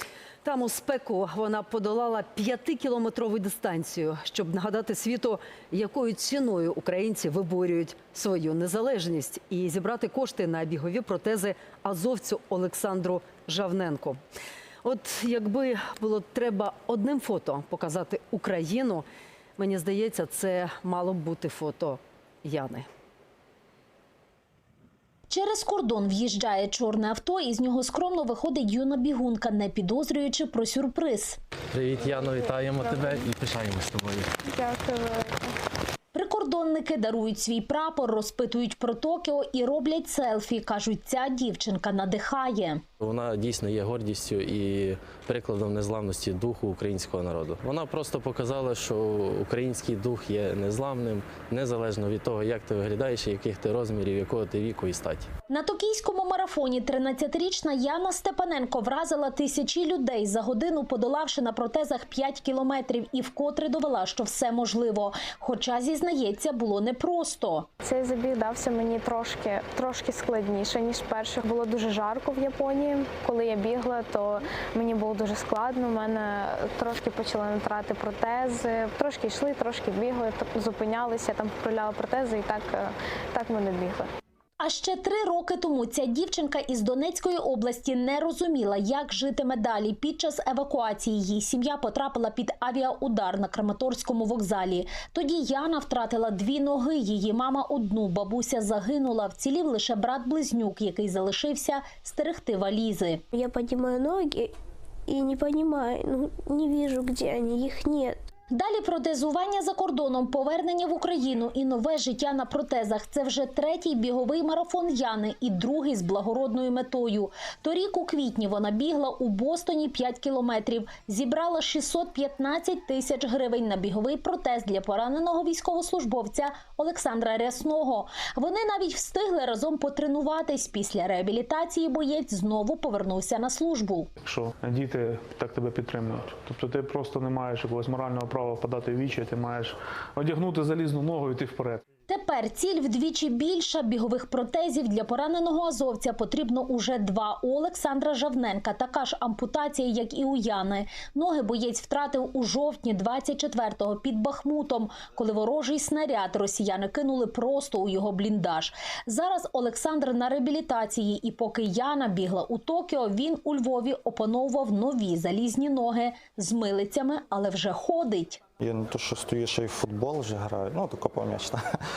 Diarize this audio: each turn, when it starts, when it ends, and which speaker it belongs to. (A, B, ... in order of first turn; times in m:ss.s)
0:00.4-0:14.2 A
0:14.8-0:19.0 A
0:19.6-0:22.9 A
0:25.3-0:31.4 B
0:31.7-0:34.3 C
0:32.0-0:33.3 D
0:34.4-0:35.6 D
0:36.1-0:42.8 B
0:43.0-0:55.3 C
0:55.5-1:07.7 B
1:07.8-1:24.1 D
1:24.6-1:43.2 B
1:43.3-1:44.6 E
1:45.1-1:48.2 E
1:48.5-2:14.1 B
2:14.2-2:21.8 F
2:22.1-2:48.4 B
2:48.6-2:51.6 G